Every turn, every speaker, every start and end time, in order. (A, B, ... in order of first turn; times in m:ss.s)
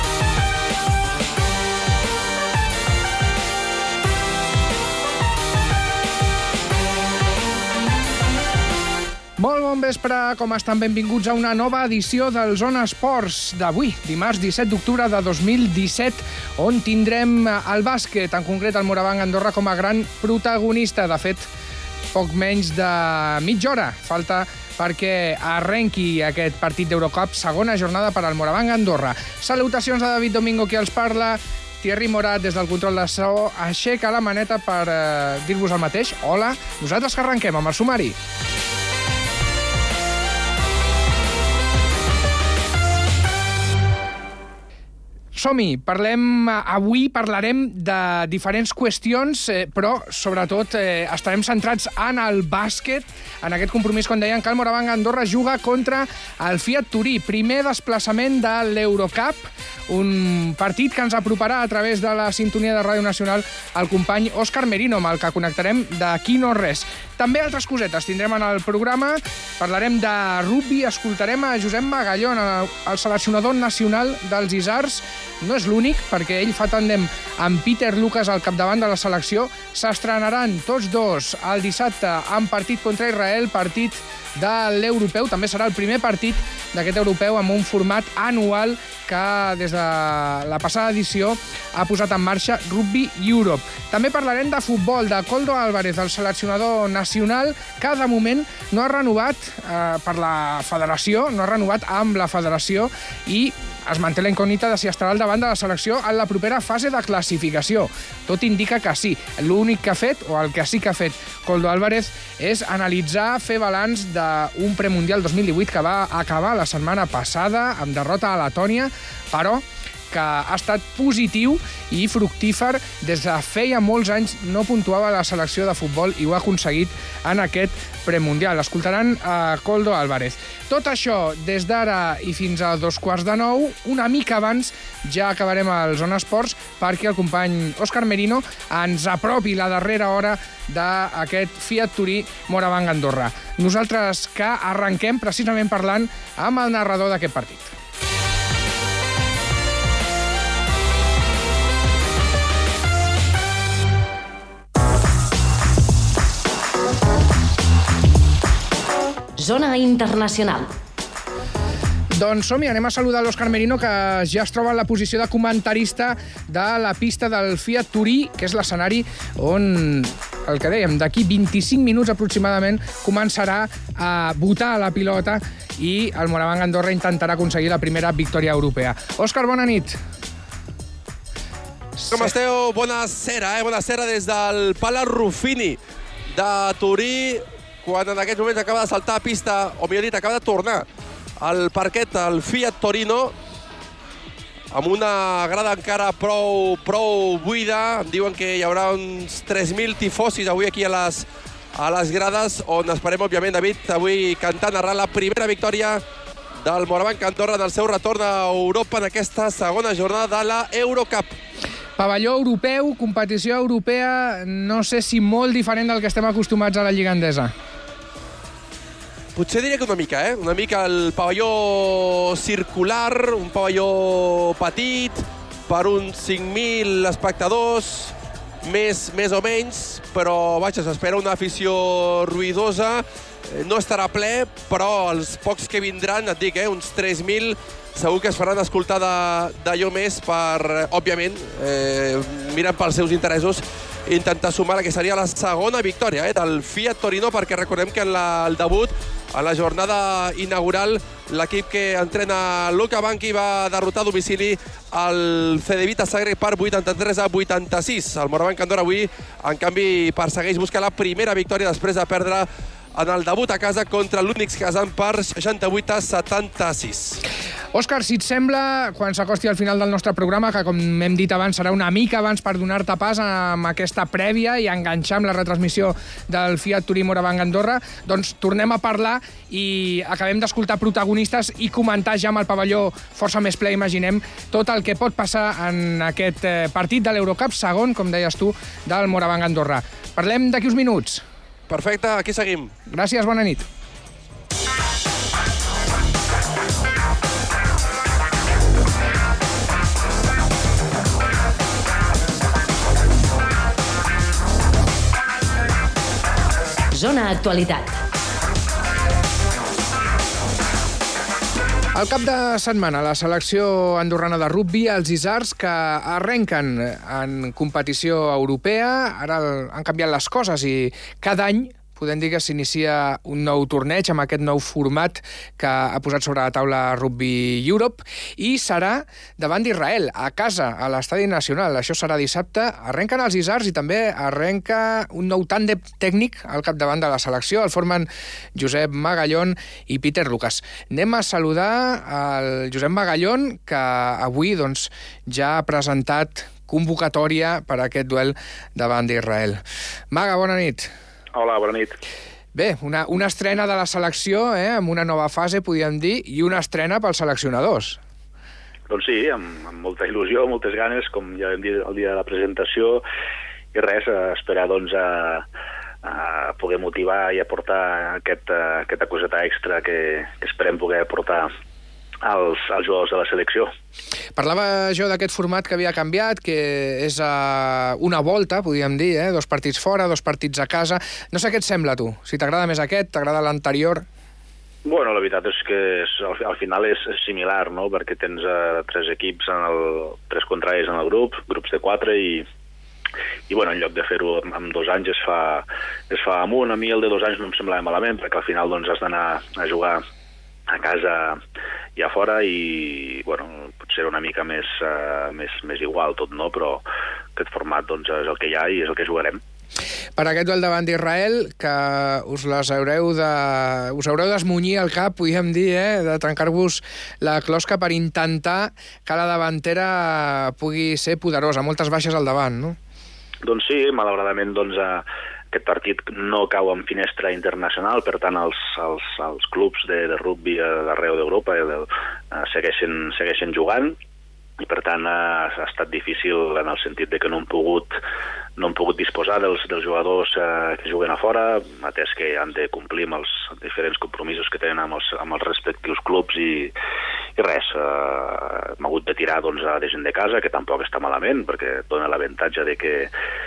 0:09.4-0:21.5 A
0:22.1-0:38.2 A
0:45.3-2:27.7 A
2:39.4-2:40.7 B
2:42.2-3:00.0 A
3:02.0-3:02.3 A
3:02.1-3:05.8 C
3:06.3-3:10.9 C
3:11.4-3:13.3 C
3:14.7-3:26.0 C
3:26.6-3:31.4 C
3:32.0-3:37.5 A
3:39.4-4:27.2 C
4:27.7-4:51.2 A
4:51.7-4:52.7 C
4:52.9-4:53.7 A
5:06.9-5:08.0 B
5:12.0-5:50.9 A
5:51.3-5:52.0 D
5:52.6-5:58.0 A
5:58.9-6:03.0 D
6:03.7-6:05.4 D
6:06.0-6:11.5 D
6:12.2-6:13.7 D
6:14.4-6:24.0 A
6:24.8-6:32.5 D
6:33.5-6:40.0 D
6:40.7-6:41.4 D
6:42.0-6:46.8 D
6:47.4-6:49.4 D
6:50.2-7:02.8 A
7:03.4-7:14.0 D
7:14.6-7:18.0 D
7:18.6-7:26.7 D
7:27.4-7:33.1 D